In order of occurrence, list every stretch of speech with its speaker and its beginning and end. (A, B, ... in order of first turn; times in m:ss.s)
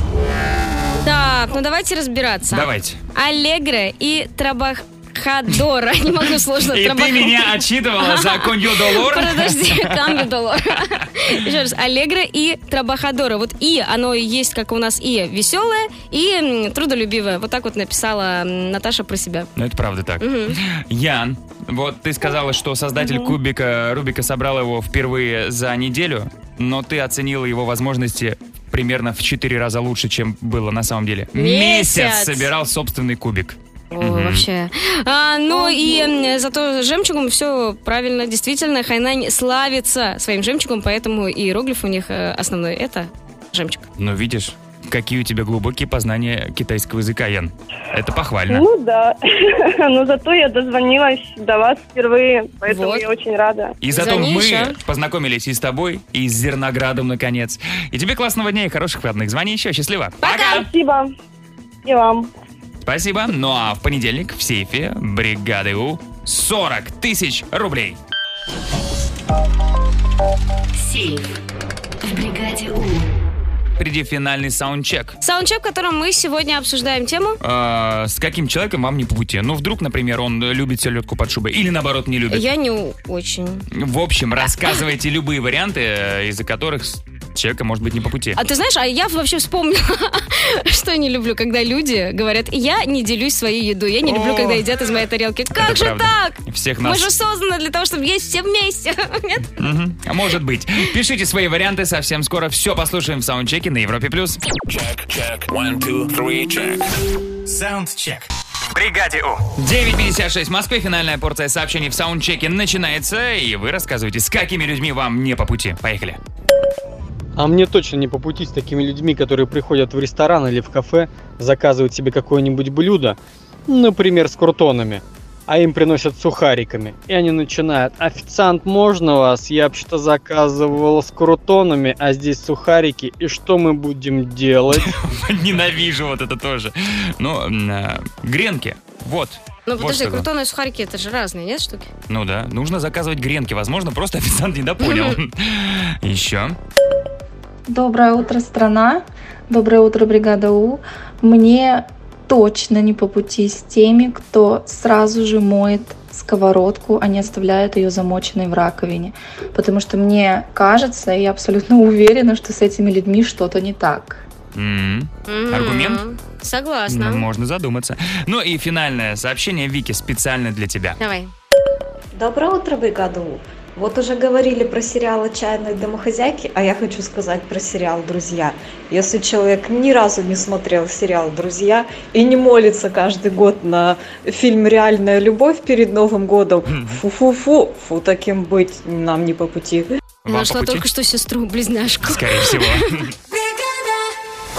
0:01.0-0:19.5 A
0:02.5-0:03.0 B
0:06.7-0:10.3 B
0:19.6-0:34.5 B
0:20.2-0:20.6 A
0:31.4-0:32.5 A
0:33.9-0:43.9 A
0:35.5-0:36.1 C
0:44.0-0:48.6 B
0:48.5-0:53.8 C
0:52.7-0:53.0 A
0:53.8-1:00.7 B
0:53.9-0:54.8 A
1:00.2-1:01.1 C
1:01.9-1:02.3 C
1:02.8-1:08.0 B
1:10.8-1:11.4 D
1:12.0-1:13.0 D
1:13.8-1:15.2 B
1:15.2-1:17.4 A
1:17.4-1:22.4 B
1:22.3-1:23.7 A
1:23.8-1:28.4 B
1:28.4-1:39.5 A
1:34.0-1:34.6 B
1:35.6-1:37.1 B
1:39.6-1:44.4 B
1:44.7-1:46.8 E
1:47.5-1:49.5 E
1:49.6-1:56.2 B
1:57.4-2:14.9 F
2:14.7-2:20.3 B
2:19.7-2:21.9 A
2:22.1-2:26.6 B
2:24.8-2:25.2 A
2:27.7-2:44.2 G
2:44.6-2:46.0 B
2:45.3-2:47.2 A
2:46.9-2:51.0 B
2:51.0-2:51.3 A
2:52.2-3:09.9 H
3:06.7-3:07.0 B
3:10.3-3:10.8 B
3:10.3-3:12.7 A
3:12.0-3:13.1 B
3:13.3-3:14.1 D